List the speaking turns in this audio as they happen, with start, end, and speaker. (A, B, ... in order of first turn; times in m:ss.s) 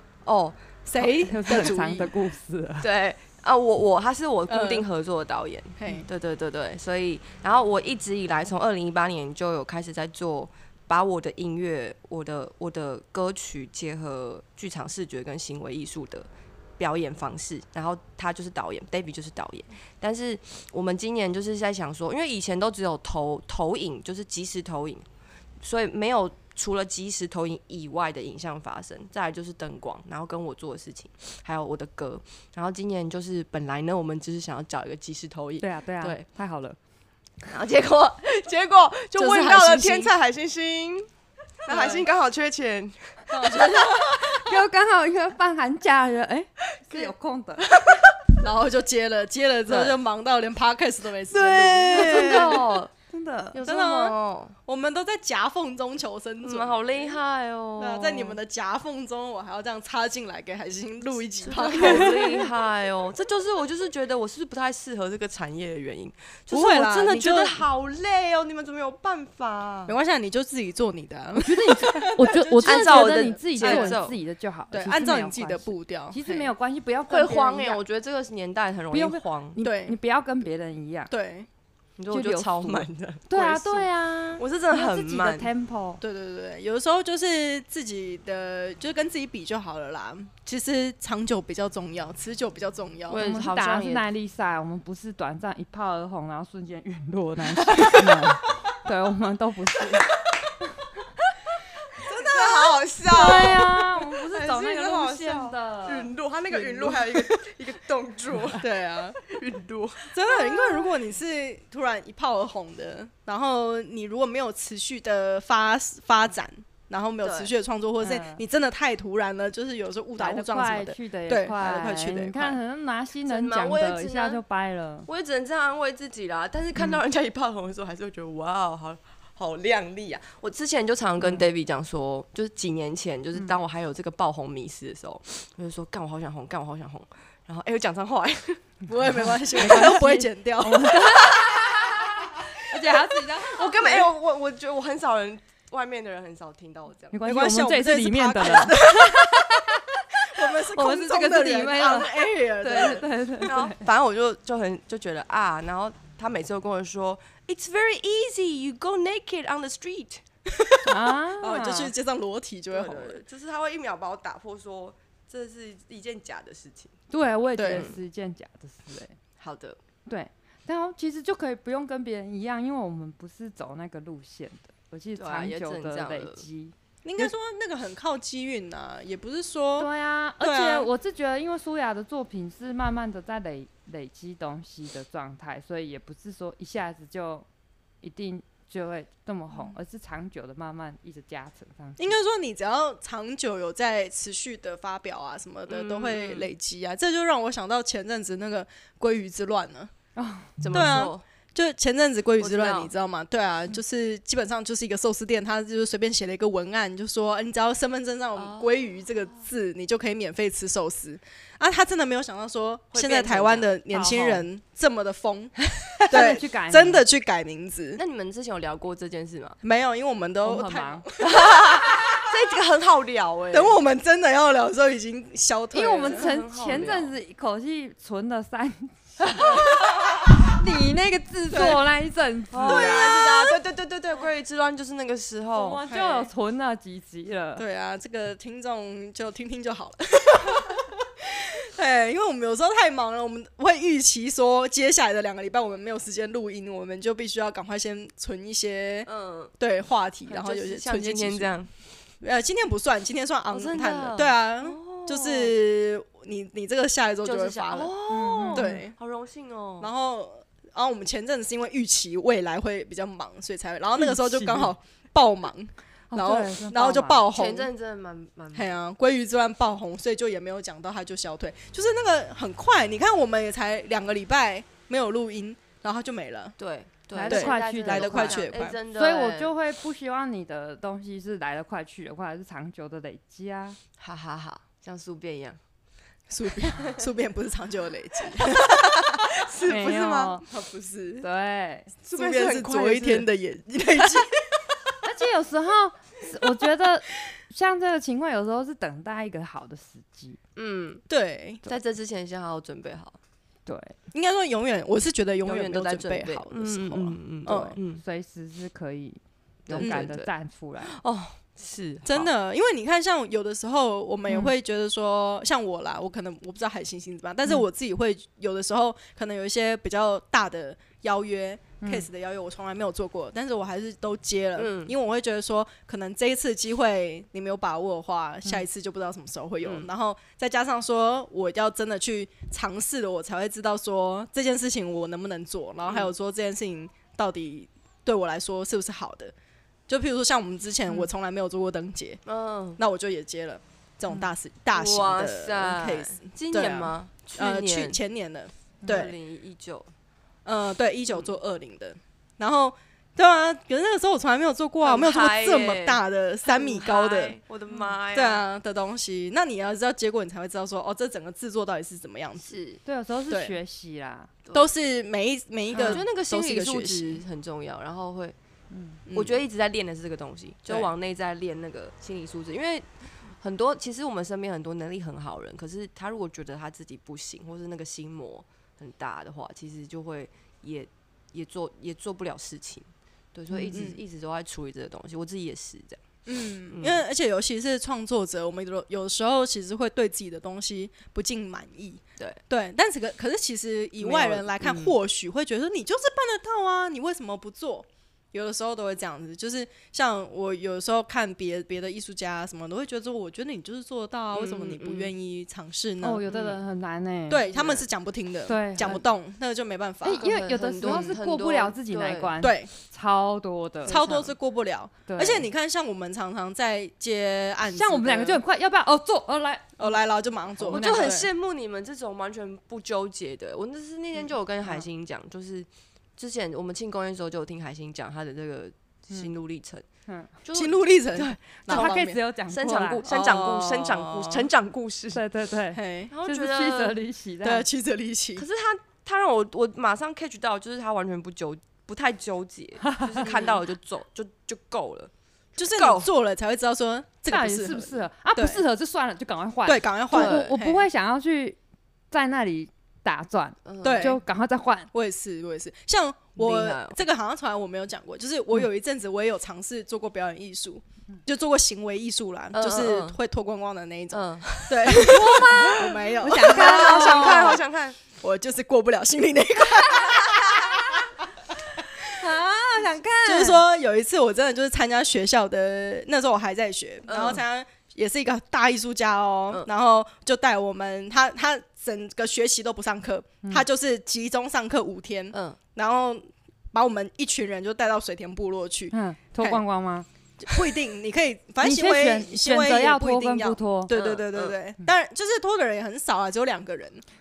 0:00.2-0:00.8 A
0:00.9-0:02.1 B
0:01.2-0:02.9 C
0:01.5-0:02.0 A
0:02.8-0:16.3 A
0:04.5-0:04.9 B
0:05.8-0:06.1 B
0:16.8-0:25.0 A
0:25.6-0:36.2 A
0:35.6-0:36.8 C
0:37.5-0:41.1 A
0:39.1-0:40.1 B
0:41.6-0:43.3 A
0:41.7-0:42.1 B
0:43.3-0:44.2 B
0:44.0-0:47.7 C
0:48.4-0:52.7 B
0:51.3-0:52.9 A
0:51.9-0:53.6 C
0:53.5-0:54.6 A
0:53.6-0:57.2 B
0:56.4-0:58.4 A
0:57.8-1:02.5 B
1:01.4-1:10.0 A
1:06.5-1:07.6 B
1:09.9-1:14.0 B
1:11.4-1:17.8 C
1:12.6-1:14.2 A
1:14.7-1:16.5 B
1:17.1-1:19.6 A
1:18.9-1:21.1 C
1:19.6-1:20.0 B
1:21.1-1:21.5 B
1:22.0-1:23.9 A
1:22.1-1:26.0 C
1:24.4-1:25.5 A
1:26.0-1:33.2 B
1:33.1-1:34.1 A
1:33.2-1:40.1 C
1:37.7-1:38.0 A
1:42.0-1:50.1 A
1:42.0-1:43.6 B
1:43.1-1:46.1 C
1:46.5-1:47.4 B
1:48.6-1:49.2 B
1:50.1-2:02.6 B
1:57.2-1:57.5 A
1:58.0-1:58.4 C
2:00.2-2:05.1 C
2:03.3-2:04.4 A
2:05.1-2:18.8 A
2:18.9-2:21.0 B
2:19.1-2:24.1 C
2:19.6-2:19.9 A
2:21.2-2:22.0 A
2:23.4-2:27.2 A
2:27.1-2:29.5 C
2:27.2-2:33.1 B
2:30.7-2:33.8 C
2:32.7-2:40.2 A
2:40.5-2:43.2 B
2:40.8-2:41.9 C
2:42.7-2:47.0 A
2:47.1-2:49.2 C
2:47.6-2:47.9 B
2:47.7-2:48.0 A
2:49.4-2:49.8 A
2:50.1-2:57.2 C
2:55.2-2:56.4 A
2:57.0-2:59.9 B
2:59.8-3:07.5 C
3:00.4-3:00.9 B
3:08.0-3:12.2 C
3:12.0-3:19.9 B
3:15.7-3:16.5 A
3:20.2-3:20.6 C
3:20.6-3:21.2 A
3:20.7-3:38.0 B
3:22.4-3:22.9 A
3:28.4-3:29.4 A
3:32.9-3:33.7 A
3:33.9-3:34.4 C
3:36.0-3:37.0 C
3:38.0-3:39.6 A
3:39.6-3:42.3 B
3:40.4-3:41.0 C
3:41.2-3:43.8 A
3:43.5-3:46.3 B
3:45.7-3:49.7 C
3:46.0-3:47.2 A
3:49.5-3:49.7 B
3:50.4-3:53.0 C
3:51.5-3:51.8 B
3:52.5-3:55.8 A
3:52.6-3:53.6 B
3:55.5-3:57.6 C
3:55.9-3:56.3 B
3:57.6-4:11.6 B
4:09.1-4:09.5 A
4:10.3-4:11.7 A
4:12.2-4:17.9 B
4:13.5-4:15.5 A
4:17.2-4:19.9 A
4:18.1-4:18.8 C
4:18.5-4:18.9 B
4:19.8-4:27.7 B
4:24.0-4:24.7 C
4:26.1-4:27.2 C
4:27.3-4:28.7 A
4:28.5-4:36.6 B
4:36.6-4:39.5 A
4:37.1-4:43.8 C
4:37.3-4:38.8 B
4:44.0-4:45.6 A
4:46.3-4:49.2 B
4:46.7-4:47.0 A
4:48.4-4:50.4 A
4:49.7-4:50.4 C
4:50.5-4:51.3 B
4:51.2-4:51.9 C
4:52.1-4:53.3 A
4:52.1-4:54.4 B
4:54.0-4:54.2 A
4:55.0-5:00.4 C
5:00.6-5:01.0 A
5:01.1-5:01.6 B
5:01.6-5:03.2 A
5:03.7-5:04.0 C
5:04.1-5:07.8 B
5:05.5-5:08.0 A
5:07.5-5:11.0 C
5:09.7-5:10.3 A
5:09.8-5:10.1 B
5:10.8-5:12.3 A
5:12.0-5:39.3 B
5:21.8-5:22.1 C
5:24.6-5:24.9 A
5:29.6-5:29.9 A
5:39.9-5:42.2 B
5:42.3-5:42.8 A
5:42.8-5:49.1 B
5:44.7-5:48.0 A
5:48.9-5:49.9 A
5:50.4-5:57.4 B
5:54.8-5:58.4 A
5:58.1-6:02.6 B
6:02.4-6:02.8 A
6:02.8-6:04.3 C
6:03.3-6:03.6 B
6:04.5-6:07.2 B
6:05.7-6:06.0 C
6:05.8-6:08.4 A
6:08.7-6:09.0 C
6:09.1-6:09.4 B
6:09.1-6:26.0 A
6:23.5-6:23.8 C
6:23.7-6:24.0 B
6:26.3-6:46.2 B
6:26.7-6:27.0 A
6:34.0-6:35.0 A
6:44.3-6:45.1 A
6:46.0-6:47.5 C
6:46.3-6:46.6 A
6:47.3-6:50.3 B
6:47.5-6:47.8 A
6:48.5-6:49.0 C
6:50.0-6:54.0 C
6:50.2-6:52.4 A
6:50.8-6:51.1 B
6:52.4-6:52.7 B
6:53.9-6:54.3 A
6:53.9-6:58.4 B
6:55.1-6:55.5 C
6:57.7-7:00.0 C
6:59.8-7:01.3 B
7:00.6-7:01.1 C
7:00.6-7:09.8 A
7:10.4-7:12.0 A
7:10.5-7:12.2 B
7:11.7-7:13.0 C
7:12.5-7:15.2 A
7:13.1-7:14.5 B
7:15.1-7:17.6 C
7:15.7-7:16.1 B
7:16.1-7:17.0 A
7:17.4-7:18.5 B
7:18.4-7:26.1 A
7:22.9-7:23.2 C
7:23.2-7:23.6 B
7:25.6-7:28.6 B
7:27.3-7:31.6 C
7:29.7-7:30.9 B
7:30.1-7:30.5 A
7:32.1-7:34.9 C
7:33.6-7:34.2 A
7:33.8-7:34.2 B
7:34.9-7:51.0 B
7:36.4-7:37.0 A
7:42.5-7:43.2 A
7:44.1-7:48.0 A
7:45.0-7:47.6 C
7:50.0-7:50.8 A
7:52.1-7:53.6 A
7:53.2-8:09.6 B
7:57.1-7:57.4 A
8:05.3-8:05.6 A
8:08.9-8:10.1 C
8:10.4-8:17.0 B
8:11.6-8:13.9 C
8:13.9-8:14.6 A